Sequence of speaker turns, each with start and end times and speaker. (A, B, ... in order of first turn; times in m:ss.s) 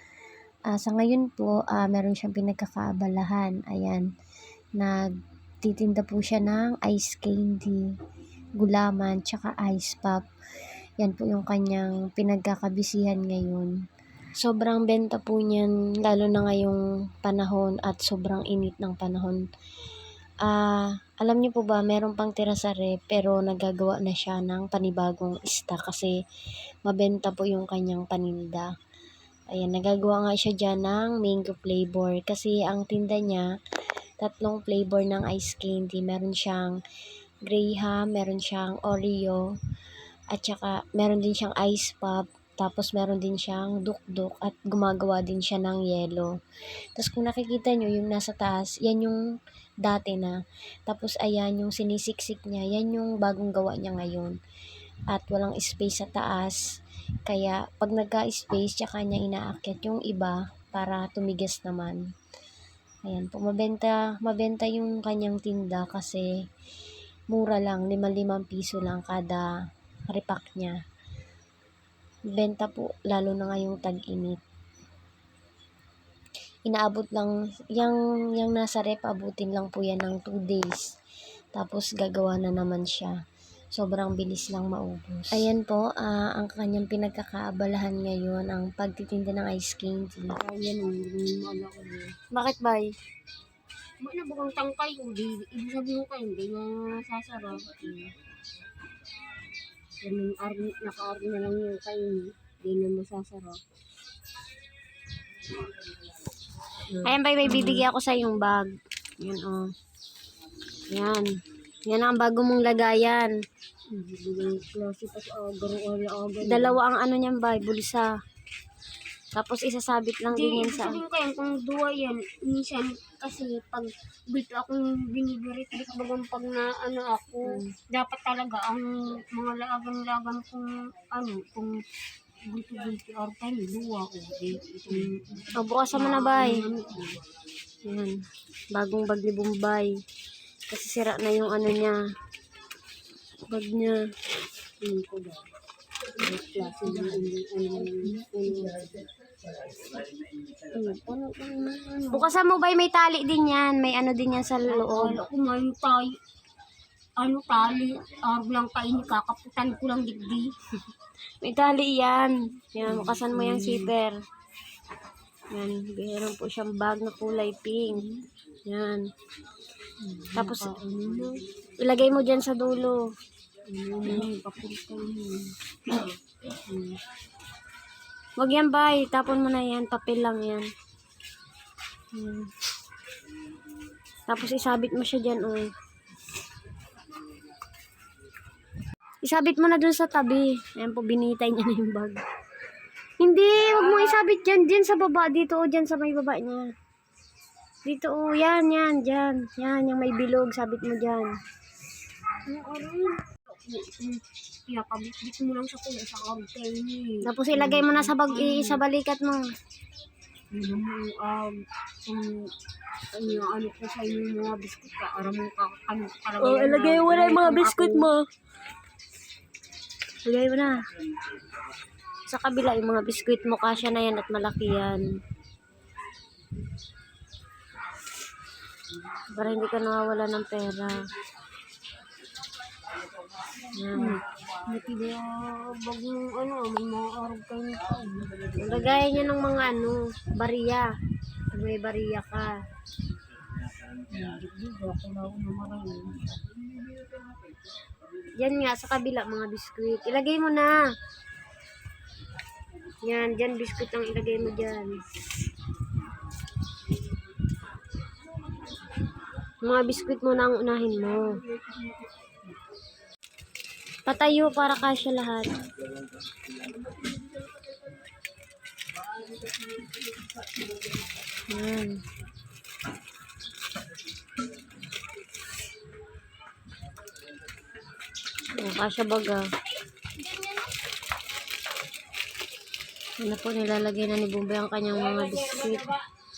0:00.7-0:04.0 A
0:05.6-0:07.8 A
0:08.6-0:10.2 A
0:11.0-0:13.7 A
0:14.4-0:19.4 A
0:20.4-0:26.1 A
0:26.8-0:28.7 A
0:29.5-0:33.5 A
0:34.2-0:36.7 A
0:37.4-0:39.4 A
0:40.3-0:46.3 A
0:46.9-0:49.2 A
0:49.8-0:50.4 A
0:50.9-0:54.3 A
0:55.1-0:56.6 A
0:57.3-1:02.0 A
1:03.0-1:06.3 A
1:07.3-1:09.5 A
1:10.1-1:10.8 A
1:12.3-1:14.4 A
1:16.7-1:20.8 A
1:21.5-1:23.1 A
1:23.7-1:30.4 A
1:30.4-1:32.1 B
1:32.3-1:32.9 A
1:34.0-1:38.1 B
1:40.0-1:43.6 B
1:47.0-1:47.8 B
1:47.0-1:49.7 A
1:50.9-1:51.3 A
1:51.9-1:53.3 A
1:53.9-1:56.8 B
1:56.4-1:58.1 A
1:59.3-2:01.0 A
2:00.3-2:11.7 B
2:07.4-2:07.7 A
2:12.4-2:17.2 B
2:15.5-2:16.7 A
2:17.8-2:18.1 A
2:18.7-2:19.9 A
2:20.7-2:22.0 A
2:23.5-2:24.0 A
2:24.8-2:25.4 B
2:26.1-2:29.0 B
2:30.7-2:32.3 B
2:32.1-2:35.2 A
2:34.7-2:36.1 B
2:37.2-2:40.5 B
2:41.4-2:44.2 A
2:42.8-2:43.9 B
2:45.5-2:48.0 A
2:48.0-2:48.2 B
2:48.7-2:49.0 A
2:50.0-2:51.4 B
2:50.3-2:50.8 A
2:51.8-2:53.0 A
2:53.7-2:55.5 B
2:56.7-2:57.0 B
2:58.4-3:00.7 A
3:02.1-3:02.5 A
3:04.3-3:05.7 A
3:09.2-3:12.2 A
3:13.2-3:16.6 A
3:17.8-3:21.3 A
3:22.5-3:28.8 B
3:27.2-3:29.4 A
3:30.5-3:32.5 B
3:33.1-3:38.1 B
3:36.4-3:38.2 A
3:40.2-3:40.7 A
3:42.3-3:45.0 A
3:49.3-3:51.0 A
3:53.8-3:54.2 A
3:53.9-3:58.7 B
3:58.6-4:00.9 A
4:01.5-4:02.5 A
4:04.1-4:07.1 B
4:08.4-4:10.9 A
4:13.0-4:15.0 A
4:19.6-4:21.3 A
4:24.0-4:25.5 A
4:31.5-4:32.0 A
4:38.6-4:39.4 A
4:43.2-4:45.9 A